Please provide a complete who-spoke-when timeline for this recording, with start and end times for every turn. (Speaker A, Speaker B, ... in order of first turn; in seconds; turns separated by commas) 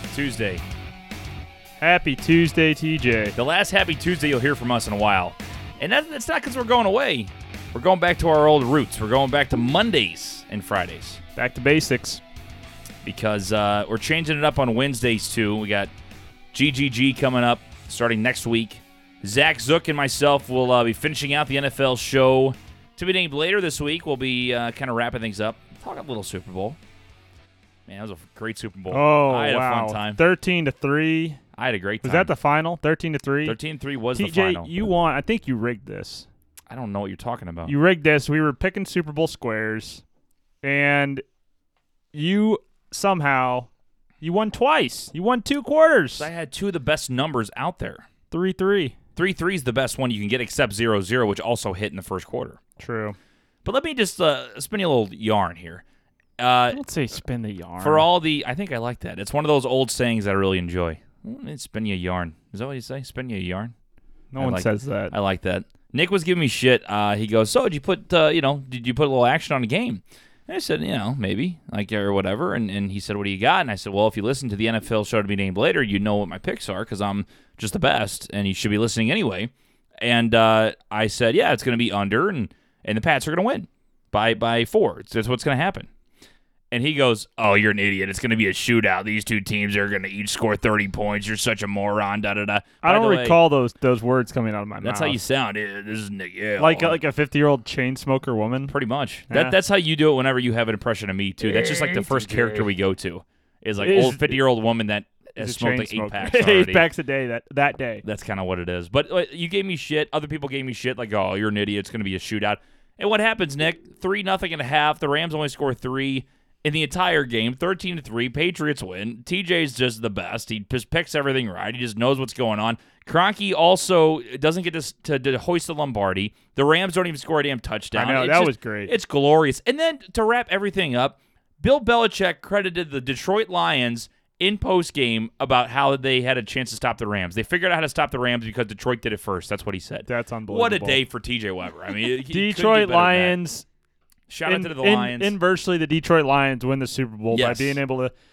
Speaker A: 0.1-0.6, Speaker B: 1.8-3.4, Speaker A: 3.3-11.2, Speaker B: 11.3-12.2, Speaker A: 13.0-15.9, Speaker A: 16.5-26.8, Speaker A: 27.9-30.2, Speaker B: 28.9-31.4, Speaker A: 31.5-32.3, Speaker B: 32.0-33.6, Speaker A: 33.4-34.7, Speaker B: 34.1-36.3, Speaker A: 36.7-37.7, Speaker B: 37.6-40.0, Speaker B: 40.6-41.2, Speaker B: 42.1-43.7, Speaker B: 44.2-46.3, Speaker A: 46.2-48.0, Speaker B: 48.3-49.0, Speaker A: 49.1-52.6, Speaker B: 52.8-53.1, Speaker A: 53.6-55.8, Speaker A: 56.4-56.8, Speaker B: 56.7-58.1, Speaker A: 57.8-63.7, Speaker B: 64.3-65.1, Speaker A: 64.4-85.9, Speaker A: 86.7-93.4, Speaker B: 92.8-95.2, Speaker A: 94.8-97.0, Speaker B: 96.6-98.7, Speaker A: 98.7-106.8, Speaker B: 99.3-99.5, Speaker B: 101.4-102.7, Speaker B: 103.8-104.5, Speaker B: 105.4-108.0, Speaker A: 108.0-143.4, Speaker B: 127.9-128.9, Speaker B: 140.1-141.0, Speaker B: 142.3-143.7, Speaker A: 144.3-145.3, Speaker B: 144.4-148.1, Speaker A: 147.3-147.8